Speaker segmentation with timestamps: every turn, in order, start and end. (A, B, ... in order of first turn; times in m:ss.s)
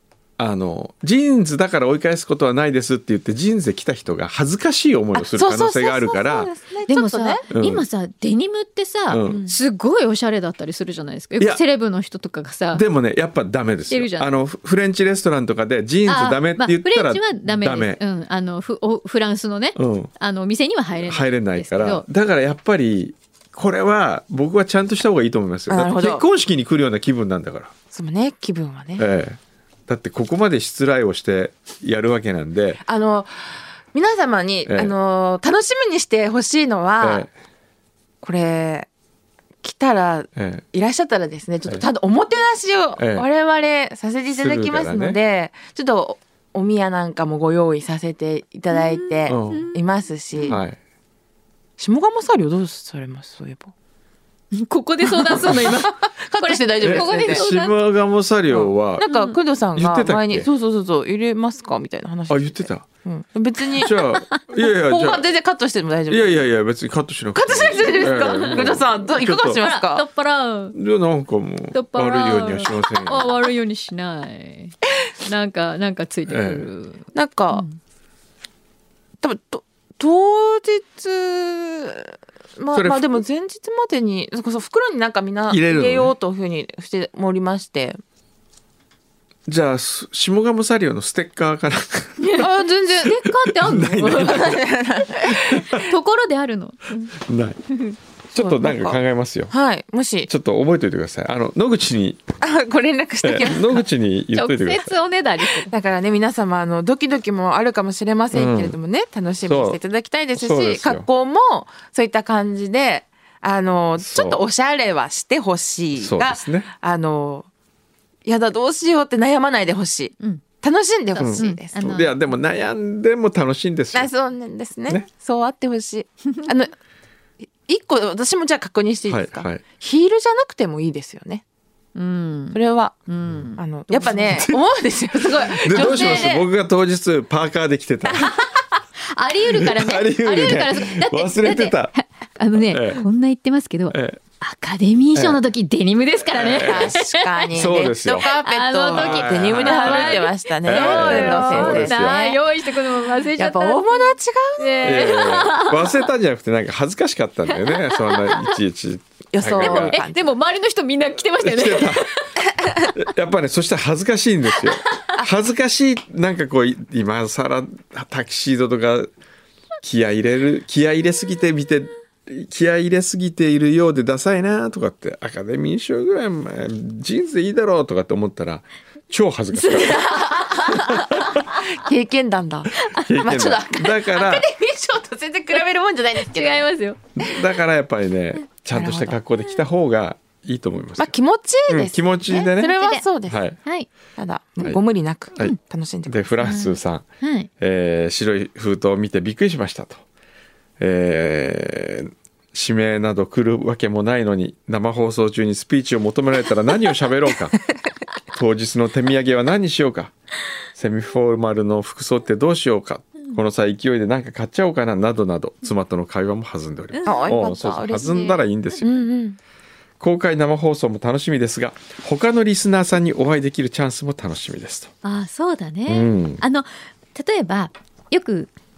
0:00.4-0:06.5 A
0:05.2-0:07.4 B
0:06.9-0:12.8 C
0:07.5-0:07.8 A
0:09.1-0:09.5 A
0:09.2-0:09.6 B
0:12.7-0:18.0 A
0:13.9-0:14.3 C
0:16.1-0:22.0 C
0:19.8-0:20.1 A
0:21.0-0:27.7 A
0:25.7-0:26.2 B
0:27.9-0:29.1 B
0:29.0-0:32.8 A
0:32.8-0:33.3 B
0:33.9-0:37.3 B
0:34.7-0:34.9 A
0:37.0-0:37.3 A
0:38.2-0:38.9 B
0:39.6-0:50.6 B
0:40.4-0:40.6 A
0:43.0-0:43.3 A
0:44.3-0:45.2 A
0:48.7-0:49.8 C
0:49.3-0:49.6 A
0:50.4-0:50.6 C
0:50.5-0:50.8 A
0:51.8-0:53.7 B
0:54.5-0:57.8 C
0:55.0-0:57.4 B
0:56.8-0:59.1 A
0:58.5-1:04.0 B
0:59.0-0:59.4 C
0:59.8-1:00.5 A
1:02.3-1:02.9 A
1:03.8-1:05.2 A
1:04.6-1:06.4 B
1:06.1-1:09.6 A
1:07.4-1:10.1 B
1:07.5-1:08.7 C
1:09.6-1:10.8 C
1:10.7-1:13.3 A
1:11.7-1:17.8 C
1:16.3-1:16.7 A
1:17.1-1:17.6 B
1:19.2-1:28.0 B
1:22.7-1:23.2 A
1:25.5-1:26.1 A
1:29.5-1:32.3 A
1:32.2-1:32.5 C
1:32.4-1:33.2 B
1:33.0-1:34.6 C
1:33.2-1:34.6 A
1:34.0-1:35.6 B
1:35.2-1:37.1 C
1:35.3-1:35.9 A
1:37.2-1:37.6 A
1:38.3-1:39.5 A
1:38.4-1:39.0 B
1:39.5-1:40.3 B
1:40.3-1:42.2 A
1:42.4-1:43.8 B
1:43.2-1:44.9 A
1:44.3-1:45.7 C
1:45.6-1:57.5 B
1:48.3-1:48.8 A
1:49.5-1:49.8 A
1:50.3-1:51.1 A
1:54.0-1:54.4 A
1:56.0-1:56.7 A
1:58.2-2:01.8 B
2:01.2-2:02.2 C
2:01.2-2:04.1 A
2:03.9-2:06.7 B
2:07.7-2:11.4 B
2:09.1-2:09.6 A
2:12.0-2:14.4 C
2:12.5-2:13.0 B
2:13.6-2:16.4 B
2:14.2-2:14.6 A
2:15.4-2:18.3 A
2:15.7-2:16.4 C
2:19.0-2:27.5 C
2:19.5-2:21.9 A
2:22.7-2:23.0 A
2:23.9-2:24.2 A
2:25.2-2:25.4 A
2:26.3-2:27.0 A
2:26.4-2:32.4 B
2:27.5-2:28.3 A
2:28.2-2:36.0 C
2:28.9-2:32.2 A
2:33.4-2:35.2 B
2:34.8-2:40.0 A
2:37.6-2:38.5 C
2:39.3-2:40.3 B
2:39.6-2:42.3 C
2:41.4-2:42.1 A
2:42.9-2:49.1 A
2:49.8-3:00.1 A
2:59.6-3:00.8 C
3:00.0-3:06.7 B
3:00.8-3:01.4 A
3:02.9-3:04.5 A
3:06.3-3:07.0 C
3:07.2-3:11.2 A
3:08.7-3:09.2 B
3:11.0-3:13.4 B
3:11.7-3:13.6 A
3:12.6-3:13.1 C
3:14.2-3:16.6 B
3:15.4-3:17.1 A
3:16.4-3:17.5 C
3:17.6-3:20.0 A
3:20.8-3:27.6 A
3:28.3-3:30.1 A
3:30.8-3:39.0 A
3:36.9-3:37.5 C
3:37.0-3:39.4 B
3:40.0-3:44.9 A
3:45.0-3:48.5 C
3:45.9-3:46.4 A